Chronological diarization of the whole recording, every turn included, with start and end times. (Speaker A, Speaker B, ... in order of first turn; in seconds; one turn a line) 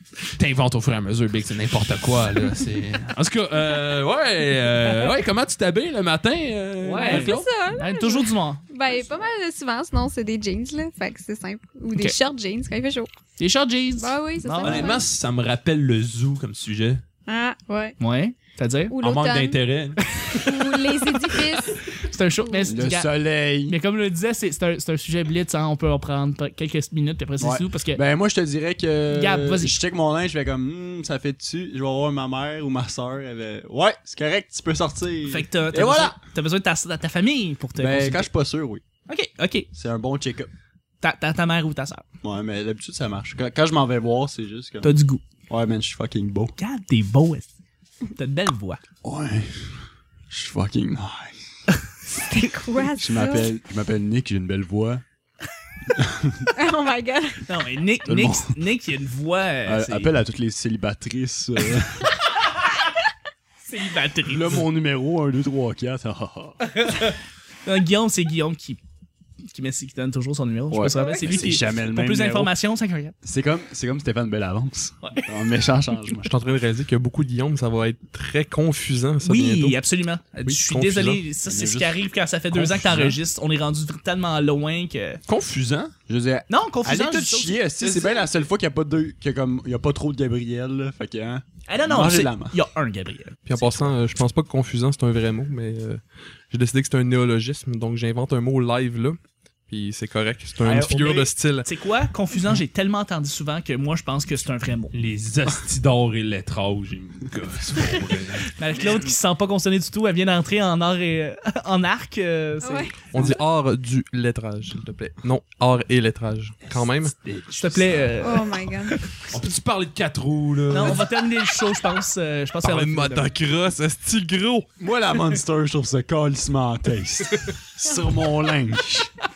Speaker A: 0.3-7.4
Speaker B: 6.8-8.6
Speaker C: 7.0-13.1
Speaker B: 13.4-14.9
Speaker C: 14.0-15.1
Speaker A: 14.6-17.0
Speaker C: 17.3-17.9
Speaker B: 18.0-18.9
Speaker C: 18.9-19.6
Speaker A: 19.0-20.0
Speaker B: 20.1-21.3
Speaker C: 20.3-21.8
Speaker B: 21.9-28.0
Speaker C: 22.4-22.7
Speaker D: 22.6-23.8
Speaker D: 27.4-36.1
Speaker B: 29.1-29.8
Speaker B: 35.3-38.3
Speaker D: 37.8-38.8
Speaker B: 39.1-39.7
Speaker D: 39.7-40.5
Speaker B: 41.0-42.0
Speaker D: 42.2-45.0
Speaker B: 44.8-45.2
Speaker D: 45.5-46.5
Speaker B: 46.6-47.5
Speaker B: 48.1-48.8
Speaker D: 49.0-49.6
Speaker D: 50.3-51.4
Speaker C: 52.2-53.5
Speaker D: 53.0-55.0
Speaker D: 56.0-56.5
Speaker C: 56.5-57.5
Speaker B: 57.5-60.1
Speaker D: 58.0-58.6
Speaker D: 59.6-62.1
Speaker B: 63.6-64.6
Speaker D: 64.3-66.6
Speaker B: 66.6-68.8
Speaker B: 69.5-73.1
Speaker D: 70.7-72.5
Speaker D: 73.2-76.3
Speaker B: 75.0-75.3
Speaker E: 76.2-79.8
Speaker B: 79.2-85.2
Speaker E: 80.4-81.2
Speaker D: 81.5-82.0
Speaker A: 82.6-83.1
Speaker A: 85.3-85.9
Speaker D: 86.1-92.6
Speaker B: 86.5-87.6
Speaker A: 87.8-88.2
Speaker B: 91.7-93.9
Speaker E: 93.5-99.2
Speaker E: 99.7-101.7
Speaker B: 100.6-104.9
Speaker A: 104.9-108.5
Speaker B: 108.4-113.4
Speaker C: 112.6-113.1
Speaker E: 113.1-117.1
Speaker A: 117.0-118.2
Speaker B: 117.5-119.3
Speaker C: 118.2-119.0
Speaker A: 119.3-121.1
Speaker B: 120.7-123.3
Speaker E: 122.6-124.7
Speaker D: 124.8-129.1